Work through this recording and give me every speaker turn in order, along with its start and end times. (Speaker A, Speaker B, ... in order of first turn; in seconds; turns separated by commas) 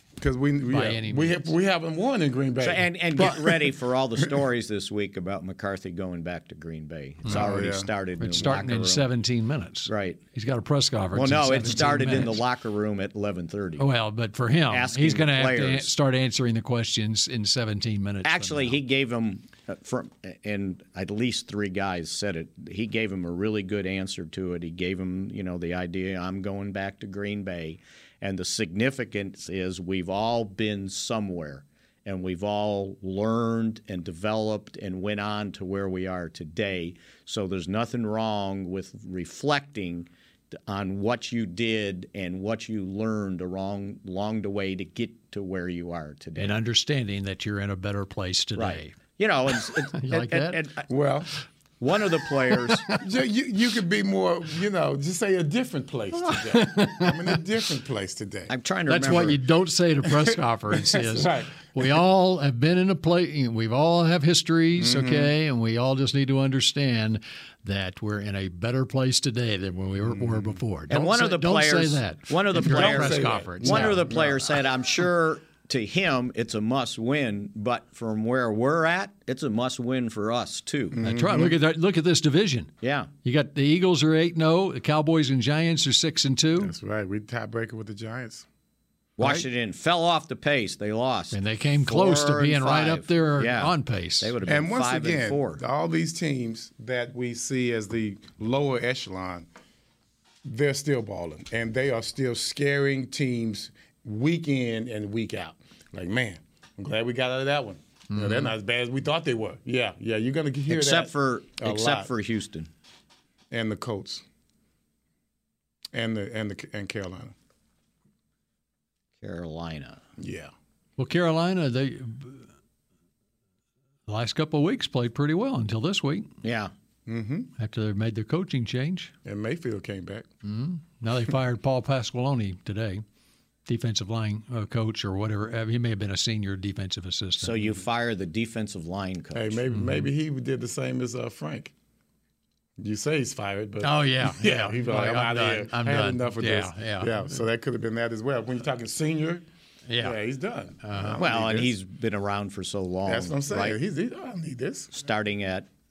Speaker A: 0.2-3.7, Speaker B: 0.7-1.5, Speaker C: 2.6-9.1, Speaker A: 7.2-7.9, Speaker B: 7.3-7.6, Speaker B: 8.2-12.4, Speaker C: 9.9-10.2, Speaker C: 11.1-13.9, Speaker B: 13.8-18.8, Speaker C: 14.7-15.9, Speaker C: 18.2-46.6, Speaker B: 46.4-49.0, Speaker C: 48.5-50.9, Speaker B: 49.7-50.6, Speaker A: 50.9-51.3, Speaker C: 51.8-52.9, Speaker B: 52.5-53.0, Speaker A: 53.0-58.5, Speaker B: 56.4-57.4, Speaker C: 58.5-59.4, Speaker B: 58.9-74.1, Speaker A: 59.0-59.3, Speaker A: 60.0-62.0, Speaker A: 64.8-65.3, Speaker A: 70.0-70.6, Speaker C: 70.9-81.0, Speaker A: 72.5-74.4, Speaker A: 80.9-81.6, Speaker B: 81.0-82.7, Speaker C: 82.8-83.1, Speaker B: 83.2-86.7, Speaker A: 86.6-88.5, Speaker C: 89.2-95.6, Speaker B: 89.2-89.4, Speaker B: 91.3-94.3, Speaker A: 94.4-99.5, Speaker A: 100.4-112.1, Speaker B: 108.1-108.5, Speaker C: 110.7-112.7, Speaker A: 113.5-114.2, Speaker A: 115.9-117.3, Speaker C: 119.2-120.0, Speaker A: 120.2-120.5, Speaker B: 121.0-122.4, Speaker B: 124.1-126.3, Speaker C: 126.4-126.7, Speaker A: 127.1-127.5, Speaker B: 127.6-129.1, Speaker A: 129.2-130.2, Speaker B: 130.4-133.0, Speaker B: 133.7-137.7, Speaker C: 137.4-139.6, Speaker A: 139.3-141.7, Speaker B: 139.7-140.1, Speaker A: 142.8-149.4, Speaker B: 143.8-147.3, Speaker B: 149.9-150.2, Speaker A: 150.0-151.8, Speaker B: 150.8-151.2, Speaker C: 151.2-153.8, Speaker A: 153.1-154.9, Speaker C: 154.9-155.7